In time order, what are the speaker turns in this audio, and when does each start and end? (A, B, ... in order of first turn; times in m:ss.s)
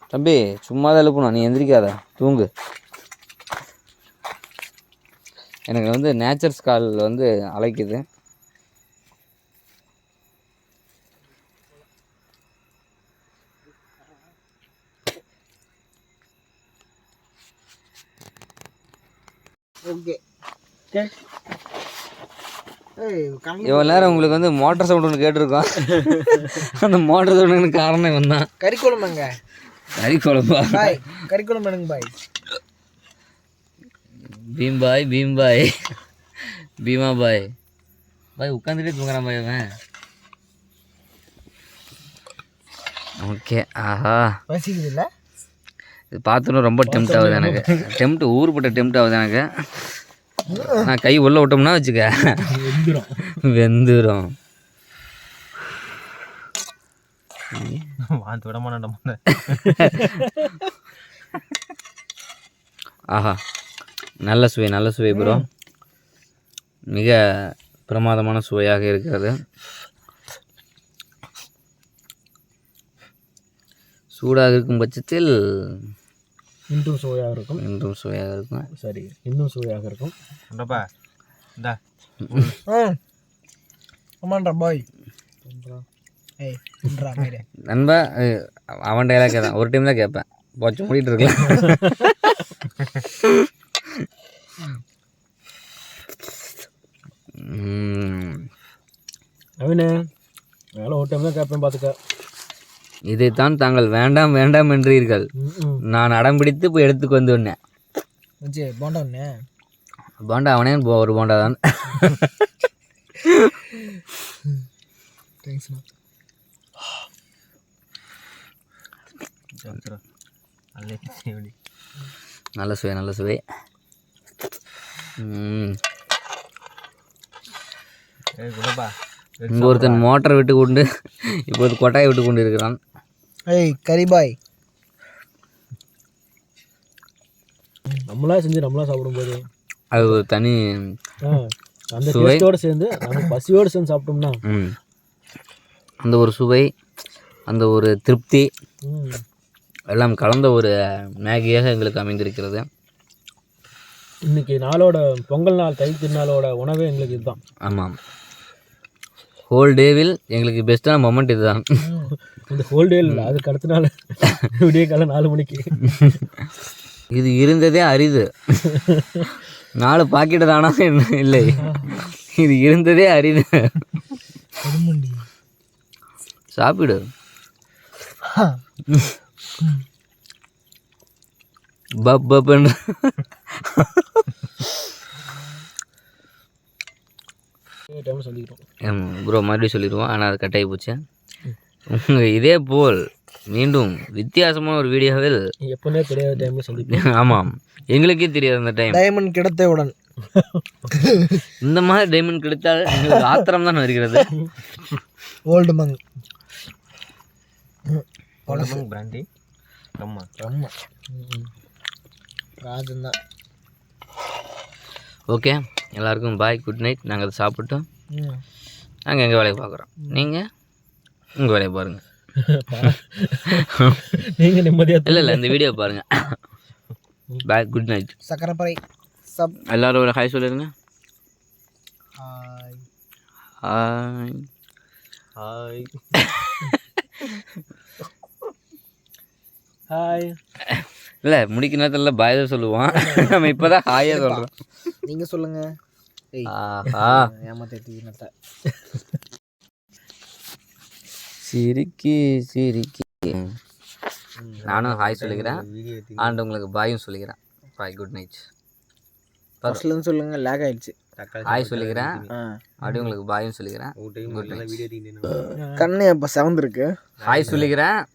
0:00.1-0:02.5 A
0:05.7-0:08.0 A
0:19.8-0:20.2 B
0:23.0-0:24.4 B
0:23.6-0:28.5 A
0:28.6-0:29.3 B
0:30.0-0:31.0 A
0:30.7-0:32.1 B
0:34.3-0:35.8 A
0:36.8-0:37.5 A
0:38.4-0:39.7 A
0:43.2-0:44.4 A
0:44.5-0:45.1 B
0:46.1-0:49.8 A
0:46.9-0:47.8 C
0:50.5-0:50.9 B
0:50.7-0:52.5 A
0:52.5-0:53.2 C
0:53.4-0:54.3 A
0:57.5-0:57.8 A
0:58.1-1:00.1 D
0:59.5-1:00.1 A
0:59.9-1:00.4 C
1:03.1-1:03.4 A
1:04.2-1:05.4 A
1:05.1-1:05.4 B
1:06.9-1:07.2 A
1:07.9-1:09.4 A
1:14.2-1:15.8 A
1:16.7-1:17.6 C
1:17.6-1:18.7 A
1:18.8-1:20.1 C
1:20.5-1:20.9 D
1:22.3-1:22.6 D
1:22.7-1:23.0 B
1:24.2-1:24.8 B
1:26.4-1:27.4 B
1:27.6-1:32.3 A
1:31.5-1:32.0 C
1:33.1-1:33.5 A
1:37.4-1:38.5 A
1:39.6-1:40.0 C
1:40.8-1:42.0 C
1:43.1-1:45.3 A
1:45.4-1:45.8 C
1:45.8-1:47.6 A
1:48.4-1:49.4 B
1:50.2-1:52.3 A
1:53.2-1:53.6 A
1:55.4-1:55.8 B
1:59.6-2:00.0 D
2:00.8-2:01.5 D
2:02.6-2:03.4 A
2:05.2-2:05.8 A
2:08.4-2:10.0 D
2:09.5-2:10.9 A
2:11.5-2:12.8 A
2:13.5-2:14.4 B
2:18.1-2:19.4 C
2:19.9-2:21.0 A
2:21.2-2:24.4 C
2:22.0-2:22.5 A
2:24.4-2:24.8 A
2:26.0-2:26.7 A
2:27.5-2:28.5 A
2:28.8-2:29.2 C
2:29.9-2:32.7 A
2:34.2-2:37.4 C
2:37.6-2:38.0 A
2:39.5-2:41.6 A
2:41.8-2:42.1 B
2:42.5-2:46.0 C
2:43.0-2:43.3 A
2:47.1-2:48.6 A
2:48.7-2:49.2 C
2:49.8-2:53.7 A
2:51.6-2:51.9 C
2:54.6-2:55.3 B
2:56.5-2:57.0 A
2:58.2-2:58.6 B
2:58.9-2:59.1 A
3:02.0-3:04.2 A
3:05.2-3:05.6 B
3:07.9-3:08.6 C
3:08.8-3:11.0 A
3:11.9-3:15.4 A
3:15.6-3:17.1 C
3:16.4-3:19.0 A
3:18.9-3:19.9 B
3:20.3-3:20.6 C
3:20.9-3:21.4 B
3:21.6-3:24.3 A
3:25.5-3:26.0 B
3:27.9-3:28.8 B
3:28.5-3:29.3 D
3:30.0-3:30.3 D
3:30.4-3:30.7 B
3:32.6-3:33.2 B
3:35.3-3:37.8 A
3:38.1-3:38.4 B
3:39.1-3:40.5 A
3:41.4-3:42.0 A
3:42.4-3:45.6 C
3:43.5-3:44.0 A
3:45.0-3:46.4 A
3:47.4-3:48.1 A
3:48.2-3:49.6 B
3:49.7-3:50.7 A
3:52.2-3:52.8 B
3:53.6-3:54.5 A
3:55.4-3:56.0 D
3:56.2-3:56.8 A
3:59.9-4:00.4 C
4:00.6-4:04.5 A
4:02.9-4:03.3 B
4:04.0-4:04.5 B
4:05.1-4:05.7 B
4:06.3-4:08.3 B
4:06.5-4:07.3 A
4:11.4-4:13.6 A
4:14.4-4:16.4 D
4:14.7-4:15.6 A
4:16.2-4:18.4 A
4:19.6-4:20.9 B
4:21.2-4:22.3 D
4:21.4-4:22.2 A
4:22.3-4:22.6 B
4:22.8-4:24.8 A
4:24.0-4:25.5 D
4:25.6-4:25.9 C
4:25.8-4:26.9 B
4:27.2-4:27.7 D
4:27.2-4:28.0 A